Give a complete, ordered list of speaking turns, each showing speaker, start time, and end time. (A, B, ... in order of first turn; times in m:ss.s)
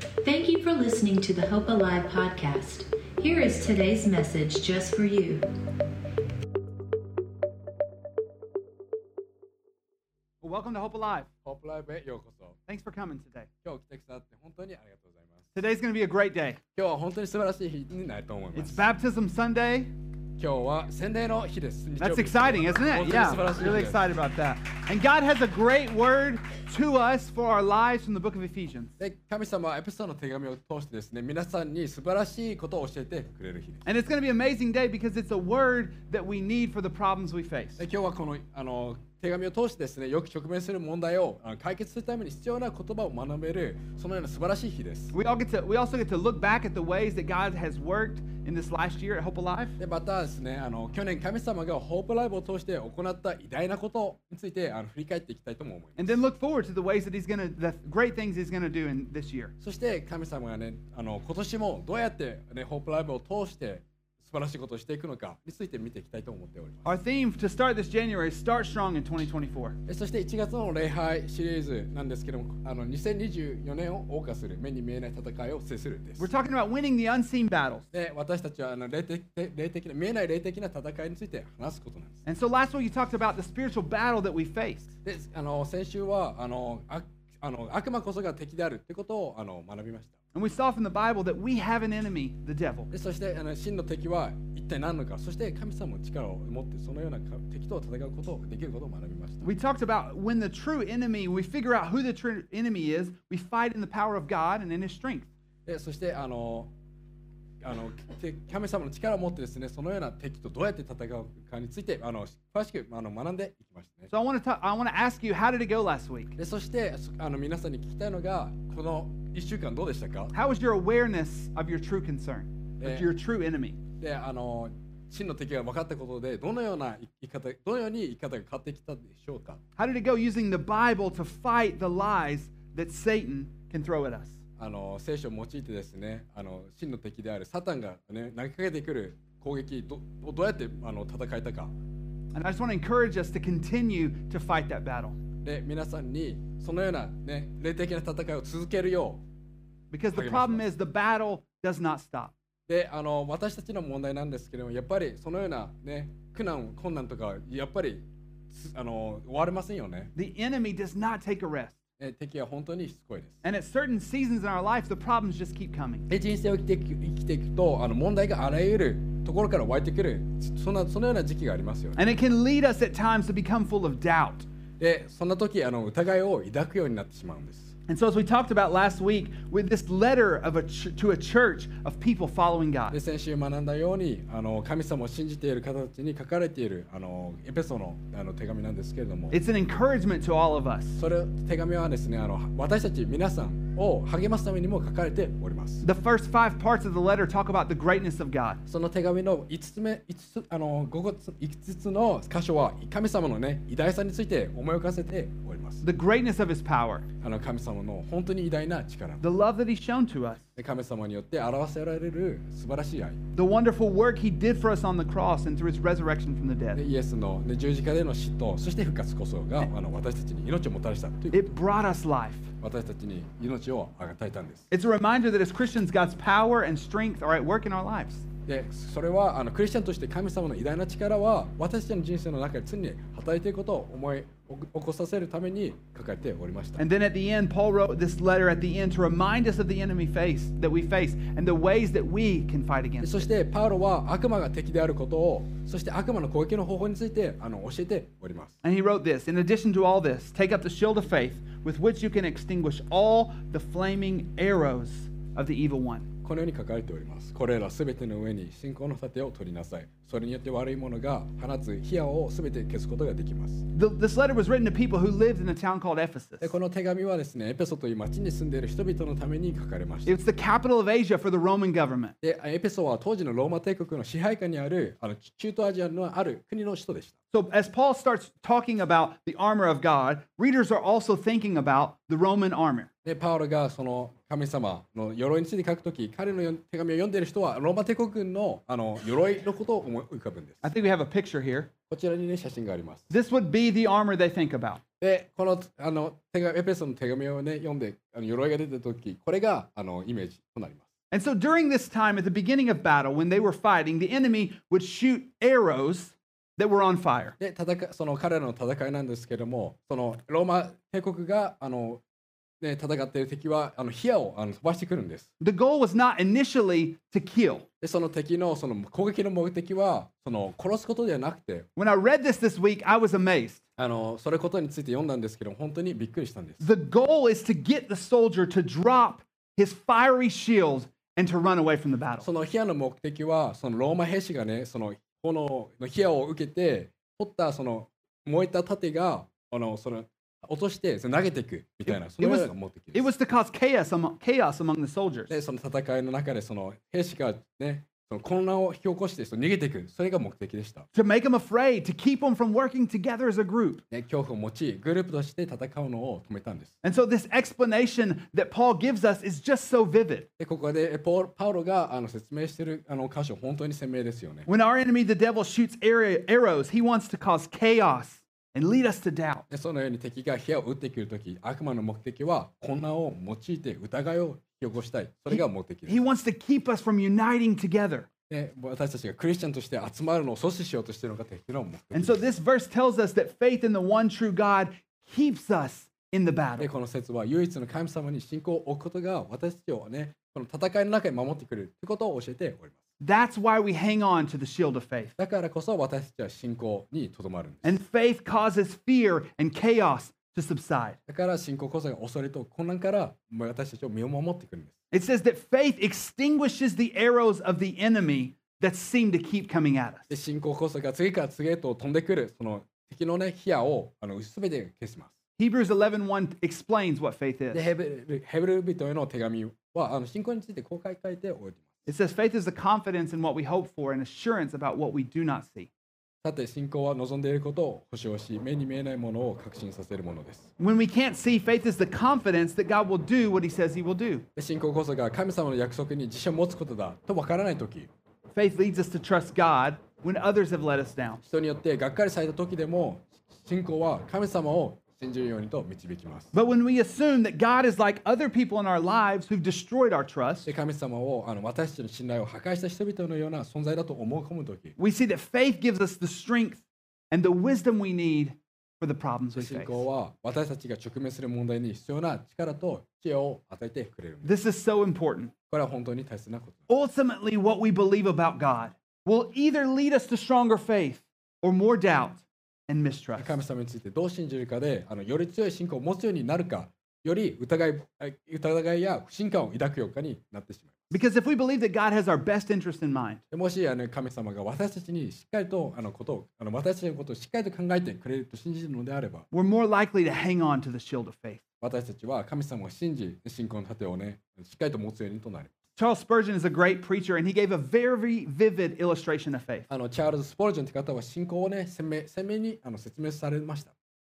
0:00.2-0:05.4 A
0:10.4-0:11.3 B
0:11.4-0:12.6 C
0:12.7-0:13.5 B
0:13.6-0:15.5 C
0:15.5-0:16.6 B
0:16.7-0:18.8 C
0:18.5-0:19.9 B
0:20.4-0:24.1 C
0:22.0-0:28.9 B
0:29.0-0:33.8 C
0:33.8-0:37.8 B
0:37.8-0:45.1 C
0:45.1-0:49.8 B
0:49.8-0:56.2 C
0:56.0-0:59.5 B
0:59.6-1:06.9 C
1:06.8-1:09.8 B
1:09.8-1:16.3 C
1:16.2-1:17.9 B
1:17.9-1:22.2 C
1:22.2-1:24.9 B
1:25.0-1:30.1 C
1:30.3-1:32.9 B
1:32.9-1:39.5 C
1:39.4-1:45.3 B
1:45.6-1:46.7 C
1:47.6-1:54.1 C
1:54.1-1:56.4 B
1:56.4-2:00.3 C
2:00.3-2:03.8 B
2:02.8-2:03.1 C
2:04.0-2:09.6 C
2:09.8-2:14.4 B
2:14.6-2:21.7 C
2:22.3-2:25.2 B
2:25.4-2:29.2 C
2:29.9-2:32.3 B
2:30.1-2:30.6 C
2:32.7-2:40.1 C
2:40.1-2:41.8 B
2:42.0-2:43.4 C
2:43.4-2:46.1 B
2:46.1-2:52.0 C
2:52.0-2:54.4 B
2:54.8-2:57.7 C
2:57.9-3:03.0 B
3:02.9-3:09.3 C
3:09.3-3:11.0 B
3:11.0-3:15.8 C
3:15.8-3:18.6 B
3:18.6-3:25.8 C
3:25.8-3:27.0 B
3:27.2-3:29.2 C
3:29.2-3:30.5 B
3:30.6-3:33.2 C
3:33.3-3:36.8 B
3:36.7-3:41.4 C
3:41.3-3:42.5 B
3:42.6-3:44.7 C
3:44.7-3:48.2 B
3:48.4-3:56.8 C
3:56.8-4:03.2 B
4:03.0-4:08.6 C
4:08.6-4:16.0 B
4:16.2-4:23.7 C
4:23.7-4:26.5 B
4:26.4-4:30.2 C
4:30.0-4:32.1 B
4:32.2-4:37.1 C
4:37.3-4:42.9 B
4:43.0-4:50.6 C
4:50.6-4:51.7 B
4:51.9-4:53.1 C
4:53.1-4:54.8 B
4:55.0-5:00.8 C
5:01.1-5:07.4 B
5:07.4-5:12.0 C
5:12.6-5:15.3 C
5:15.4-5:17.6 B
5:17.8-5:21.7 C
5:21.8-5:23.6 B
5:23.8-5:26.6 C
5:26.6-5:32.3 B
5:32.2-5:43.1 C
5:41.9-5:45.3 B
5:45.3-5:50.9 C
5:50.9-5:53.8 B
5:53.9-5:56.7 C
5:56.8-6:00.3 B
6:00.4-6:04.5 C
6:04.5-6:09.4 B
6:09.5-6:16.0 C
6:15.3-6:18.1 B
6:18.3-6:22.2 C
6:21.9-6:26.7 B
6:26.6-6:32.8 C
6:33.0-6:35.1 B
6:35.2-6:37.8 C
6:37.6-6:41.0 B
6:41.1-6:44.7 C
6:44.9-6:50.1 B
6:50.1-6:55.1 C
6:55.4-6:57.7 B
6:57.5-7:01.7 C
7:01.9-7:05.7 B
7:06.2-7:10.5 C
7:10.6-7:14.2 B
7:14.4-7:17.9 C
7:18.3-7:21.2 B
7:21.2-7:26.3 C
7:26.3-7:30.5 B
7:30.4-7:34.7 C
7:34.8-7:39.8 B
7:39.3-7:44.4 C
7:44.2-7:45.3 B
7:45.5-7:46.6 C
7:46.7-7:53.4 B
7:53.2-8:00.9 C
8:00.9-8:03.2 B
8:03.3-8:09.2 C
8:09.3-8:11.4 B
8:11.6-8:15.5 C
8:15.8-8:19.7 B
8:19.7-8:23.7 C